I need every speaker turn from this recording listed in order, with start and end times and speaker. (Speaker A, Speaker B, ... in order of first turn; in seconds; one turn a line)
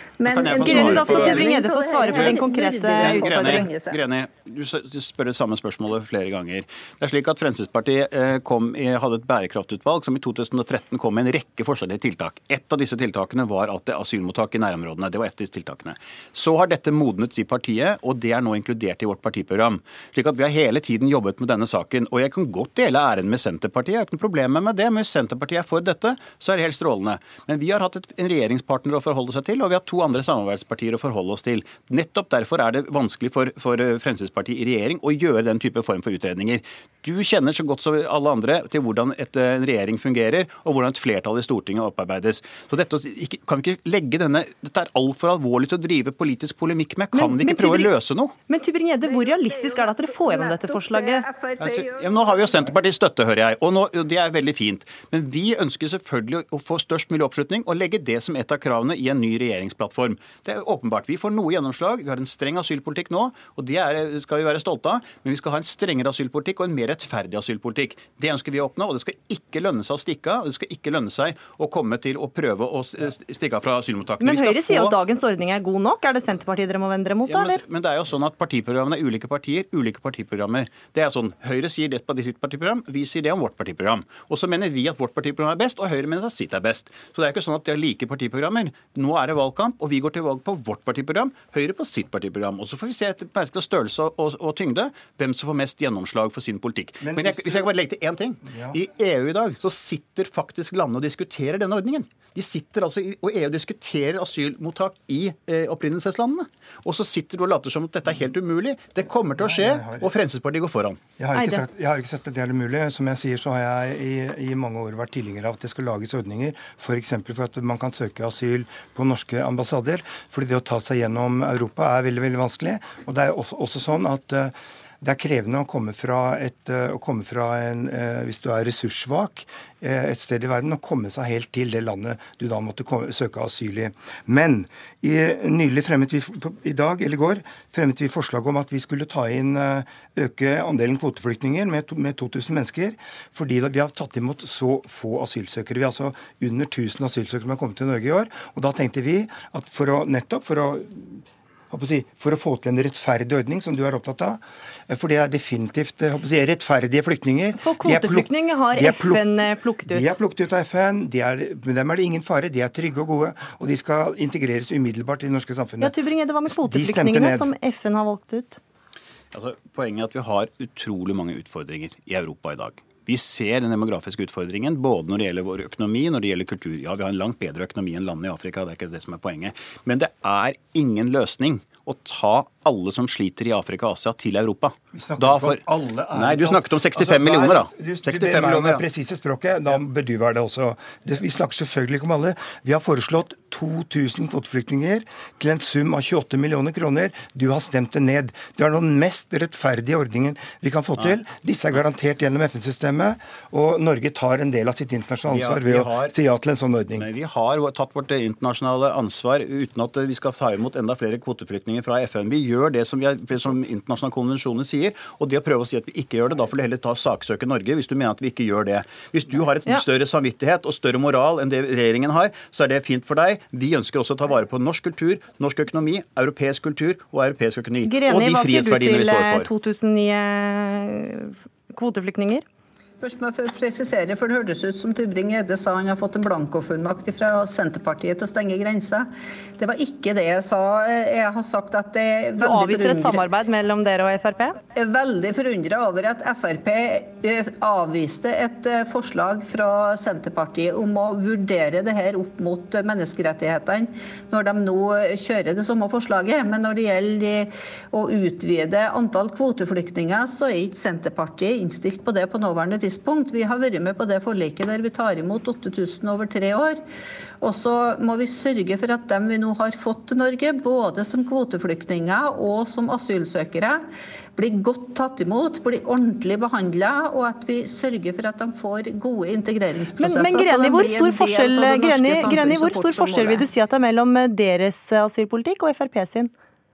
Speaker A: 0.2-4.0
Speaker B: 0.2-1.6
Speaker C: 0.6-3.7
Speaker B: 3.0-48.3
Speaker C: 47.1-47.9
Speaker C: 48.5-51.2
Speaker A: 49.0-52.7
Speaker B: 51.6-75.0
Speaker C: 74.2-77.6
Speaker B: 77.3-111.0
Speaker D: 97.0-97.7
Speaker D: 98.4-98.8
Speaker D: 109.4-110.1
Speaker D: 111.2-165.9
Speaker C: 111.3-111.6
Speaker C: 157.6-160.2
Speaker C: 165.8-168.6
Speaker D: 166.5-167.5
Speaker B: 169.3-185.6
Speaker D: 184.9-207.1
Speaker B: 186.1-188.8
Speaker B: 205.3-206.1
Speaker B: 206.9-229.5
Speaker C: 227.8-232.4
Speaker A: 233.0-243.2
Speaker C: 242.4-244.6
Speaker A: 244.7-266.8
Speaker A: 267.4-273.8
Speaker A: 274.4-283.4
Speaker C: 280.0-286.3